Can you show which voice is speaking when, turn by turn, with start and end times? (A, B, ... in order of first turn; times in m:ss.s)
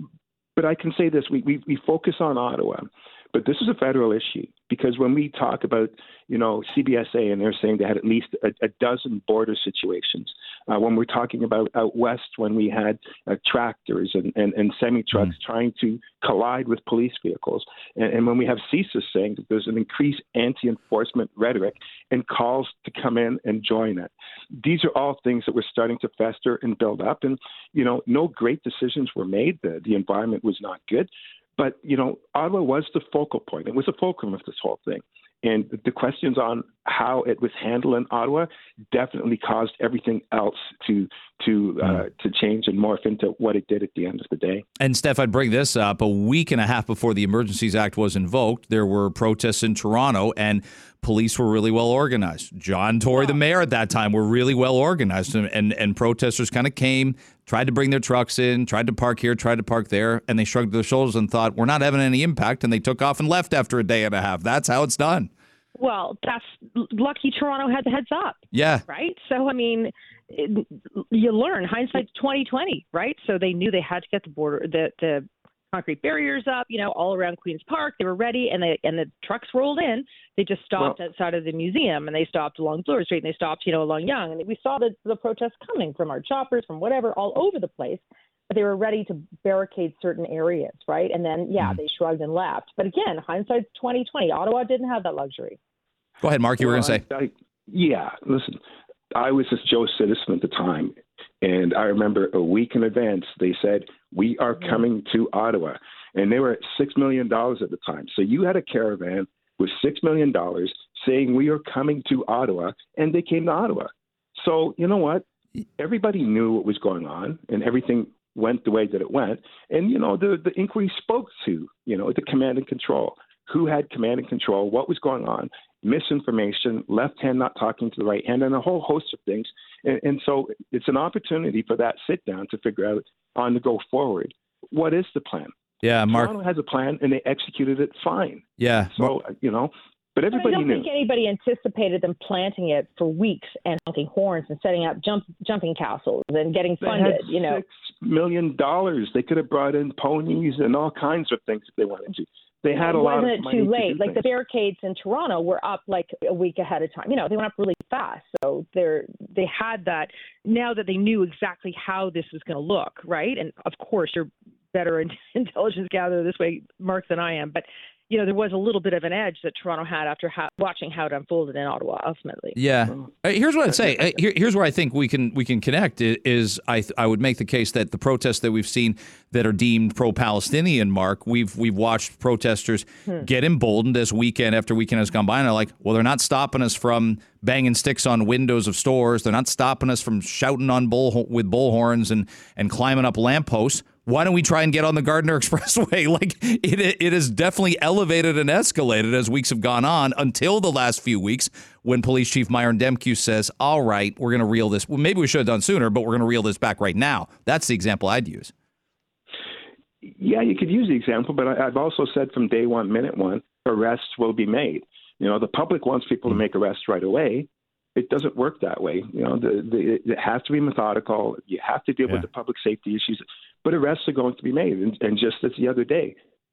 0:00.6-0:44.6 A
0:44.8-1:05.3 B
1:05.8-1:35.6 C
1:08.5-1:08.8 B
1:36.2-1:37.0 B
1:36.6-1:38.6 A
1:39.1-1:55.2 A
1:55.8-2:15.5 A
2:15.8-2:16.3 B
2:16.1-2:20.9 A
2:18.6-2:19.1 B
2:20.3-2:27.6 C
2:26.8-2:34.2 A
2:32.8-2:52.6 C
2:52.6-3:28.5 B
3:30.0-3:46.2 A